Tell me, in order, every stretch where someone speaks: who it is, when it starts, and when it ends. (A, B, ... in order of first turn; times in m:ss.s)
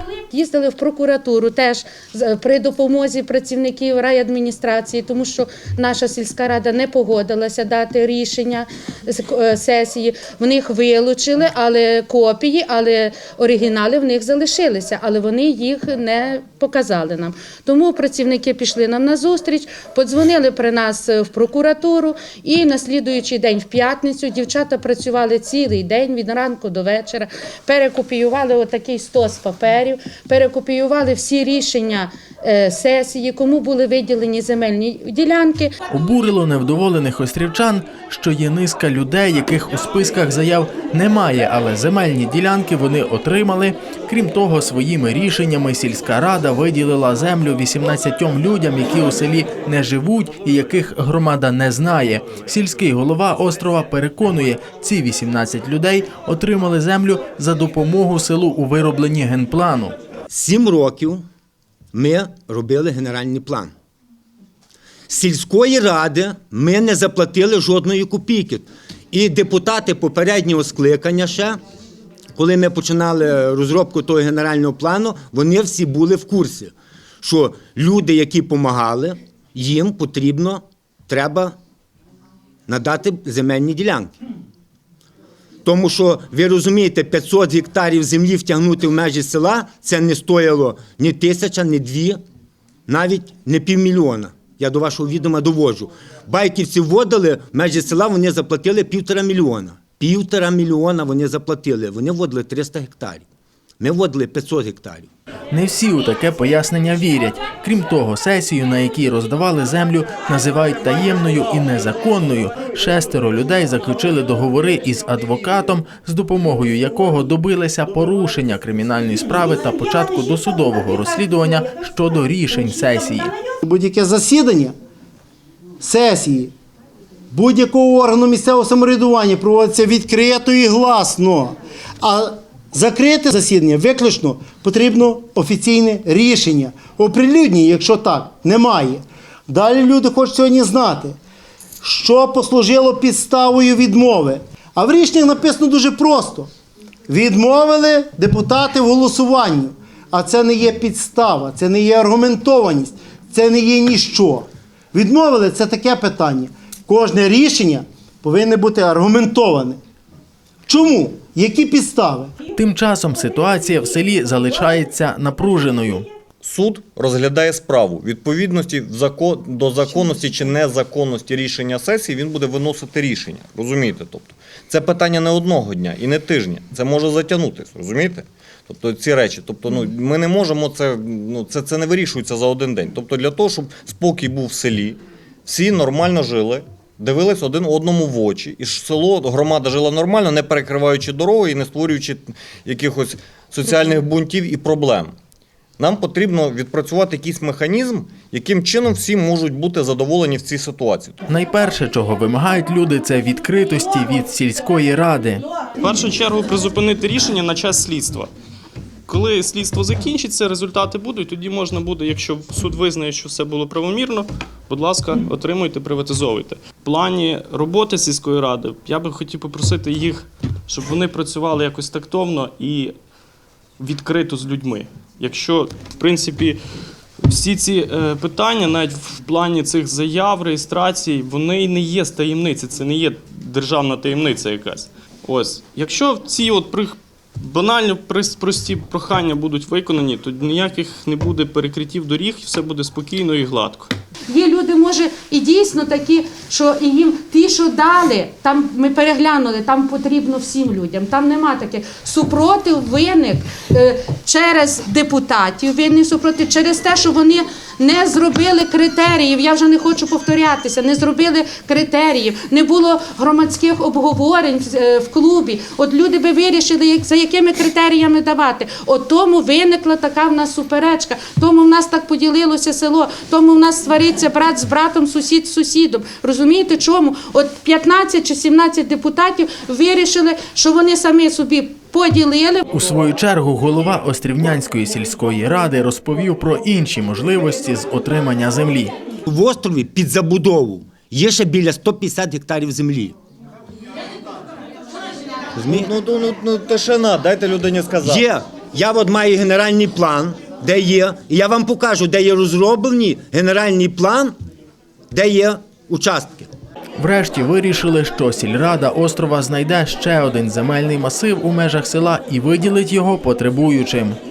0:00.3-0:35.7 A
0:35.9-1:00.0 B
1:00.3-1:01.2 C
1:01.9-1:03.7 C
1:05.1-1:11.6 C
1:12.3-1:21.6 C
1:22.7-1:24.1 C
1:25.6-1:32.2 C
1:32.9-1:43.3 C
1:43.8-1:45.1 C
1:45.5-2:03.3 B
2:03.6-2:04.7 D
2:05.8-2:06.5 D
2:07.3-2:21.2 D
2:21.8-2:26.5 D
2:27.1-2:39.8 D
2:40.7-2:42.3 D
2:42.6-2:46.1 B
2:46.4-3:15.1 E
3:15.8-3:21.2 E
3:21.3-3:25.4 B
3:25.8-3:28.3 F
3:29.1-3:42.9 F
3:43.8-3:46.6 F
3:47.2-4:03.9 F
4:04.3-4:42.6 A
4:42.7-4:48.9 B
4:49.3-4:53.2 C
4:55.6-4:55.9 C
4:55.7-4:58.2 E
4:58.0-5:04.4 C
5:05.1-5:06.5 C
5:07.0-5:14.2 B